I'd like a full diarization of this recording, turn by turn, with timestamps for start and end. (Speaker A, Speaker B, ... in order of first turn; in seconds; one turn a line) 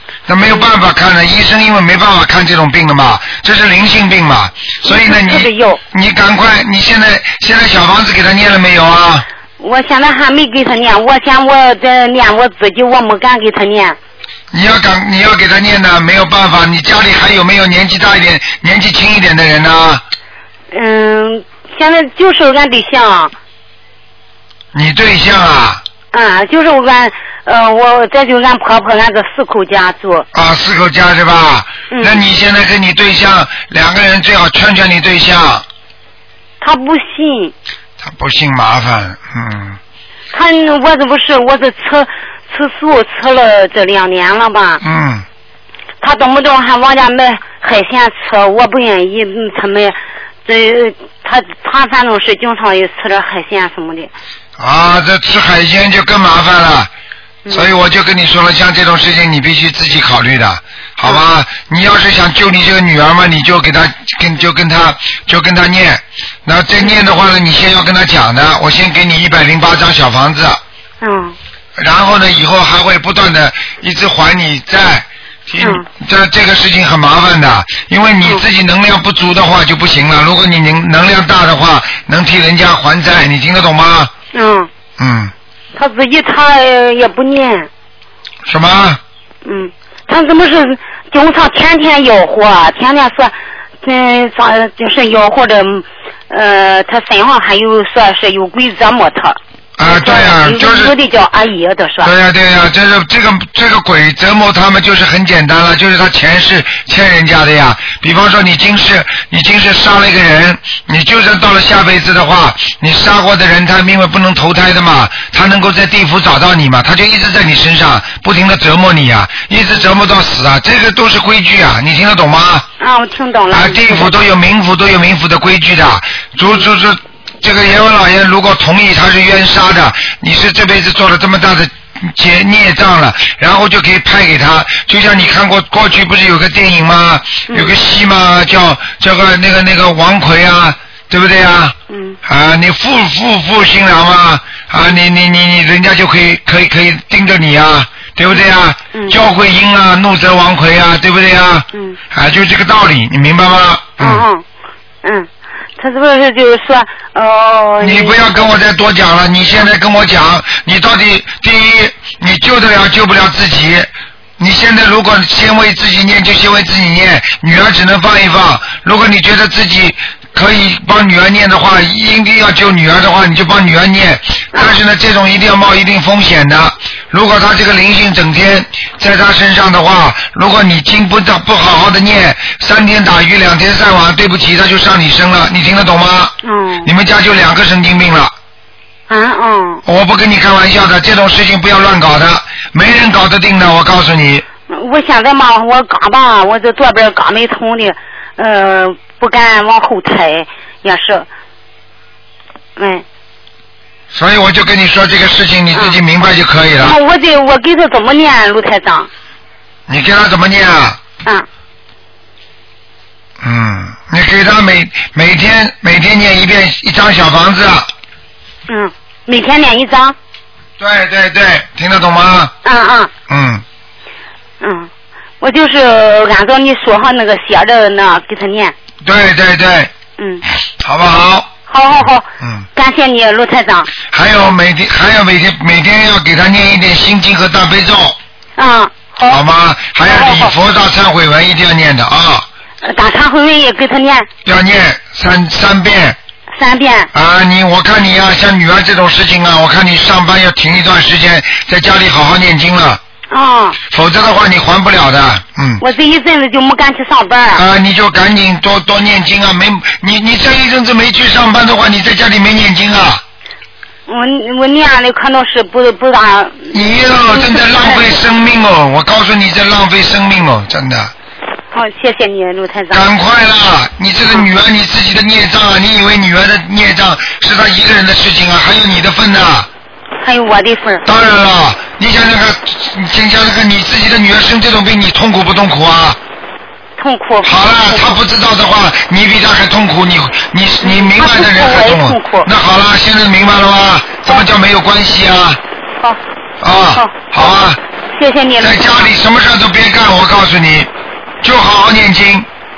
Speaker A: 0.3-9.2
Speaker B: 4.8-5.8
Speaker B: 9.6-14.0
Speaker A: 14.5-20.0
Speaker B: 20.7-23.3
Speaker A: 24.7-25.8
Speaker B: 26.1-30.3
Speaker A: 30.3-35.6
Speaker B: 31.9-32.2
Speaker B: 36.6-37.5
Speaker A: 38.0-39.8
Speaker B: 40.3-44.8
Speaker A: 44.8-45.2
Speaker B: 46.0-54.1
Speaker A: 54.6-56.9
Speaker A: 57.5-70.6
Speaker B: 71.0-71.4
Speaker A: 71.8-84.1
Speaker B: 75.6-75.9
Speaker B: 84.3-84.7
Speaker A: 85.0-85.3
Speaker B: 85.8-87.7
Speaker A: 88.5-89.0
Speaker B: 89.5-102.1
Speaker A: 99.8-100.9
Speaker A: 102.0-122.7
Speaker B: 122.8-124.1
Speaker A: 123.5-154.2
Speaker B: 137.5-137.8
Speaker B: 141.9-142.2
Speaker B: 154.0-154.4
Speaker B: 155.0-158.5
Speaker A: 157.8-188.3
Speaker B: 174.5-174.8
Speaker B: 186.4-186.9
Speaker B: 189.1-189.8
Speaker A: 189.9-194.4
Speaker B: 194.7-201.3
Speaker B: 202.8-203.1
Speaker A: 204.1-207.0
Speaker B: 205.7-206.0
Speaker B: 206.8-209.1
Speaker A: 209.9-211.0
Speaker A: 213.4-217.9
Speaker B: 218.7-220.2
Speaker A: 220.8-222.5
Speaker B: 222.6-223.1
Speaker A: 223.3-223.6
Speaker B: 224.6-224.9
Speaker B: 225.4-228.8
Speaker A: 229.0-229.9
Speaker B: 230.2-230.4
Speaker A: 230.8-231.5
Speaker B: 231.7-233.9
Speaker A: 232.4-232.7
Speaker A: 234.1-238.2
Speaker B: 238.6-239.4
Speaker A: 239.3-242.5
Speaker B: 240.0-240.5
Speaker B: 242.8-244.3
Speaker A: 244.4-246.2
Speaker B: 246.5-247.1
Speaker A: 247.1-253.0
Speaker B: 253.3-253.8
Speaker A: 253.9-255.8
Speaker B: 255.8-257.6
Speaker A: 257.6-263.2
Speaker B: 264.1-268.2
Speaker A: 266.7-271.1
Speaker B: 271.7-273.1
Speaker A: 272.9-279.7
Speaker B: 280.2-281.1
Speaker A: 281.1-286.2
Speaker B: 287.0-288.2
Speaker A: 287.4-295.6
Speaker B: 290.8-292.5
Speaker A: 296.6-297.8
Speaker B: 296.9-297.6
Speaker B: 298.1-299.1
Speaker A: 298.6-300.9
Speaker A: 301.4-302.5